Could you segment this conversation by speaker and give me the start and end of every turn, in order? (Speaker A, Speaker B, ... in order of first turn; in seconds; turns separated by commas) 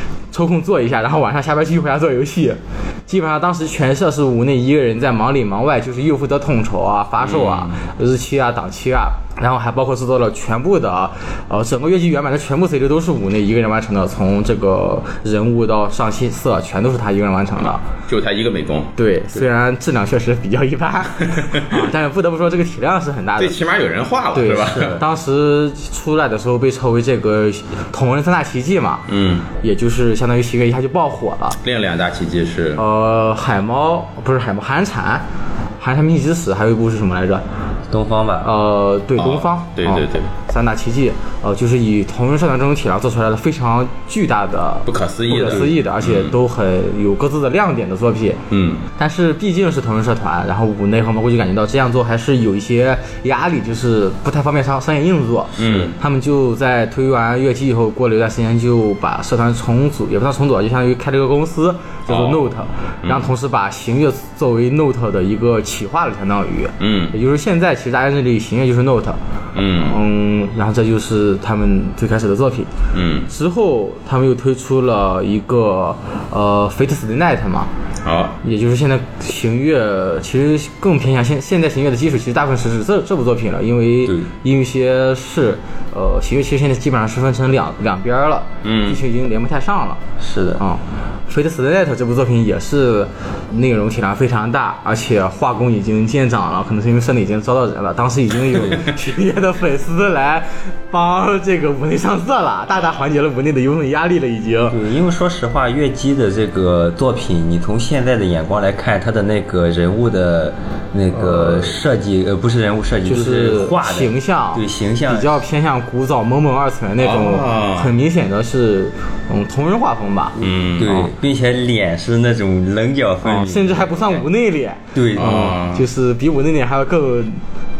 Speaker A: 0.3-17.8, Speaker B: 7.2-7.8, Speaker B: 18.1-18.9, Speaker A: 18.9-23.6, Speaker B: 21.3-21.6, Speaker B: 23.4-25.0, Speaker A: 24.3-29.1, Speaker C: 24.6-25.0, Speaker B: 29.1-29.5, Speaker A: 29.6-31.6, Speaker B: 31.6-32.8, Speaker A: 32.8-35.2, Speaker A: 35.8-37.4, Speaker C: 37.9-38.5, Speaker A: 38.4-48.4, Speaker B: 39.2-40.3, Speaker B: 44.9-46.4, Speaker B: 48.5-48.8, Speaker A: 49.0-69.2, Speaker B: 55.6-56.0, Speaker B: 62.1-62.5, Speaker B: 63.0-63.3, Speaker B: 66.8-67.1, Speaker B: 69.5-70.0, Speaker A: 69.7-72.7, Speaker B: 72.9-73.3, Speaker A: 73.3-77.7, Speaker B: 78.0-78.3, Speaker A: 78.4-90.0, Speaker B: 88.6-89.0, Speaker C: 90.2-90.6, Speaker A: 90.6-104.8, Speaker C: 98.5-98.8, Speaker C: 104.7-115.4, Speaker A: 111.2-111.7, Speaker A: 113.0-120.4, Speaker B: 117.0-117.9, Speaker B: 120.4-121.1, Speaker C: 120.8-123.9, Speaker A: 123.2-127.4, Speaker C: 124.9-125.5, Speaker B: 125.1-125.8